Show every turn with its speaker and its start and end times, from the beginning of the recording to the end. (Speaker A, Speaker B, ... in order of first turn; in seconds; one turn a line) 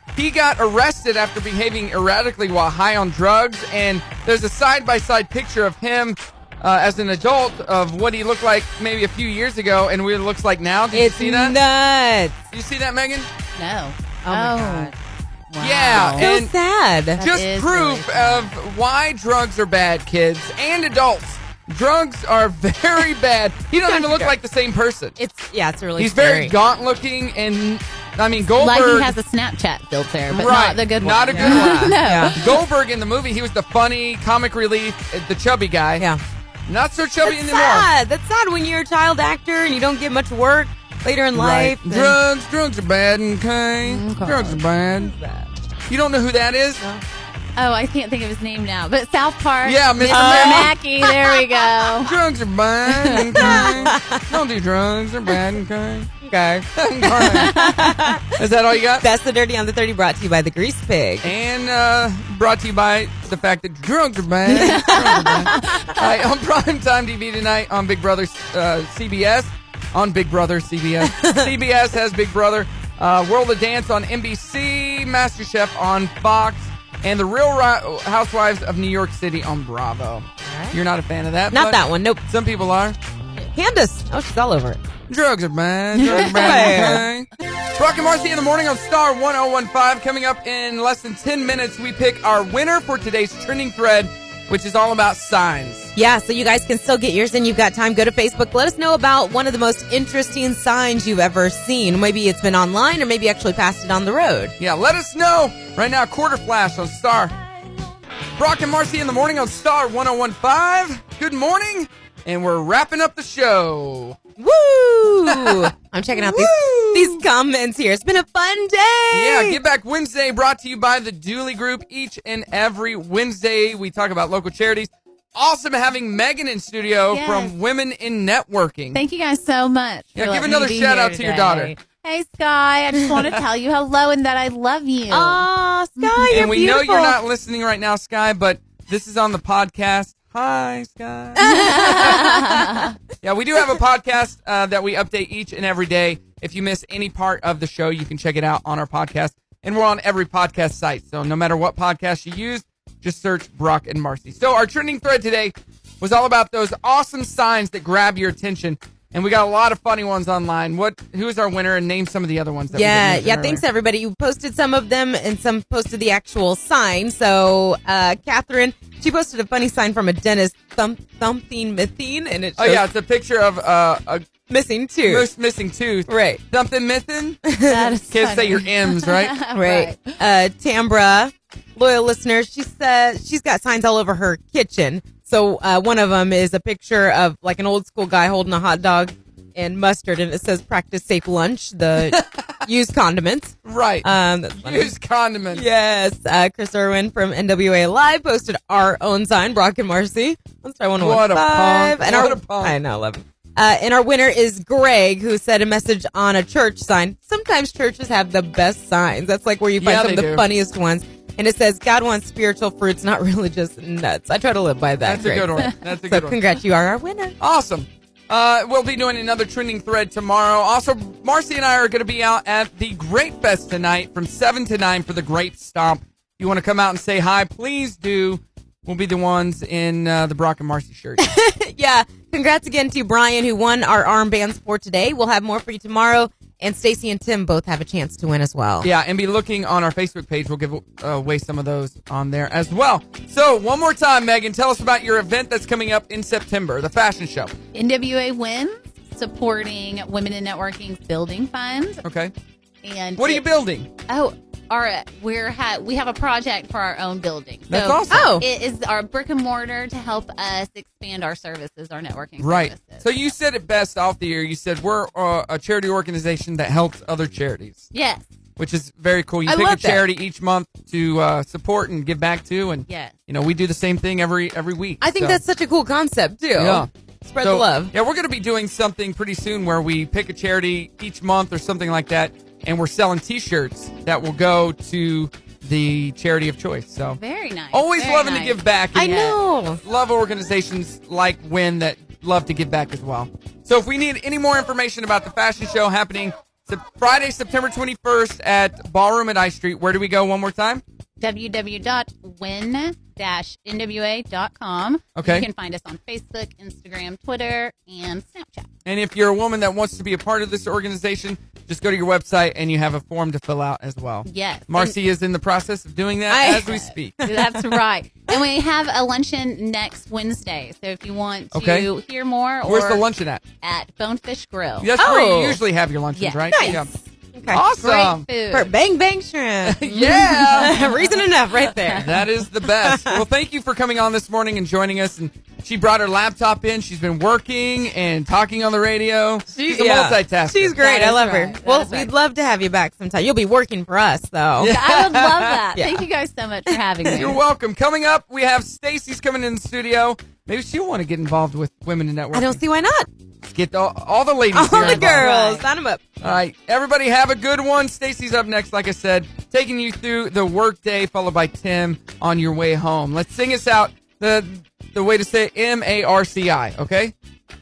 Speaker A: 0.1-11.6
Speaker B: 10.9-12.4
Speaker A: 12.5-13.3
Speaker C: 13.6-14.9
Speaker B: 14.2-14.9
Speaker C: 15.5-16.3
Speaker A: 15.6-16.5
Speaker B: 16.2-17.2
Speaker C: 17.2-18.5
Speaker A: 17.2-25.1
Speaker B: 23.8-24.3
Speaker B: 25.2-26.5
Speaker A: 26.0-29.2
Speaker C: 28.5-32.6
Speaker A: 30.3-36.1
Speaker B: 30.4-32.4
Speaker A: 36.7-37.9
Speaker B: 37.2-42.2
Speaker A: 41.3-45.1
Speaker B: 43.9-45.5
Speaker C: 44.0-44.4
Speaker A: 45.9-46.8
Speaker C: 47.6-52.2
Speaker A: 49.6-50.7
Speaker B: 50.1-51.8
Speaker A: 52.0-56.1
Speaker C: 53.0-53.9
Speaker B: 53.1-54.3
Speaker B: 56.2-58.4
Speaker A: 56.8-59.1
Speaker C: 57.4-58.1
Speaker B: 59.0-61.3
Speaker A: 61.2-83.0
Speaker B: 64.5-65.9
Speaker C: 64.5-65.9
Speaker B: 71.0-71.5
Speaker B: 80.4-80.8
Speaker B: 81.5-82.2
Speaker B: 83.5-84.8
Speaker A: 85.1-95.9
Speaker B: 86.0-87.1
Speaker C: 86.0-87.0
Speaker B: 96.0-104.5
Speaker A: 104.6-107.4
Speaker A: 108.4-114.2
Speaker B: 114.4-119.6
Speaker A: 115.3-117.2
Speaker A: 119.1-129.0
Speaker C: 127.1-127.5
Speaker C: 128.9-136.5
Speaker A: 130.2-131.8
Speaker B: 135.1-137.2
Speaker A: 136.3-142.3
Speaker B: 141.4-142.8
Speaker C: 141.4-142.9
Speaker A: 143.2-163.6
Speaker B: 162.7-172.8
Speaker A: 172.6-174.3
Speaker B: 174.5-175.3
Speaker A: 175.1-177.5
Speaker B: 176.1-176.4
Speaker B: 177.5-177.9
Speaker C: 177.7-180.2
Speaker A: 178.1-179.4
Speaker B: 179.5-194.9
Speaker A: 192.0-192.7
Speaker A: 193.6-195.7
Speaker B: 195.5-217.4
Speaker A: 201.0-202.8
Speaker A: 209.8-210.4
Speaker A: 215.0-216.4
Speaker A: 217.4-231.2
Speaker B: 231.2-238.9
Speaker A: 238.8-247.5
Speaker C: 247.7-252.0
Speaker A: 252.0-252.3
Speaker C: 252.8-253.4
Speaker A: 253.2-253.9
Speaker C: 254.1-263.1
Speaker A: 257.7-258.4
Speaker B: 258.1-258.5
Speaker A: 262.4-267.9
Speaker C: 267.9-268.2
Speaker A: 268.6-275.4
Speaker B: 269.5-270.1
Speaker C: 272.9-273.1
Speaker B: 275.0-277.9
Speaker A: 276.6-276.9
Speaker A: 277.4-287.2
Speaker C: 287.2-288.6
Speaker A: 287.7-300.8
Speaker B: 288.9-289.8
Speaker C: 301.2-308.7
Speaker A: 305.2-305.5
Speaker A: 308.9-317.3
Speaker C: 314.3-315.0
Speaker B: 316.3-317.8
Speaker C: 316.5-323.0
Speaker A: 321.5-321.9
Speaker A: 322.6-323.4
Speaker C: 323.6-325.0
Speaker A: 324.8-326.9
Speaker B: 325.0-325.6
Speaker C: 326.1-327.0
Speaker B: 326.5-326.8
Speaker B: 327.3-327.6
Speaker A: 327.5-328.3
Speaker C: 327.8-328.7
Speaker B: 328.5-332.1
Speaker A: 329.7-330.8
Speaker C: 329.9-332.1
Speaker A: 332.0-340.9
Speaker B: 332.8-333.2
Speaker B: 339.5-345.0
Speaker C: 340.8-342.1
Speaker A: 344.6-345.5
Speaker C: 344.6-347.4
Speaker B: 345.6-346.1
Speaker B: 346.7-347.4
Speaker A: 347.1-352.6
Speaker B: 352.3-353.1
Speaker A: 353.4-355.3
Speaker B: 354.5-356.0
Speaker C: 354.7-355.7
Speaker A: 356.2-367.1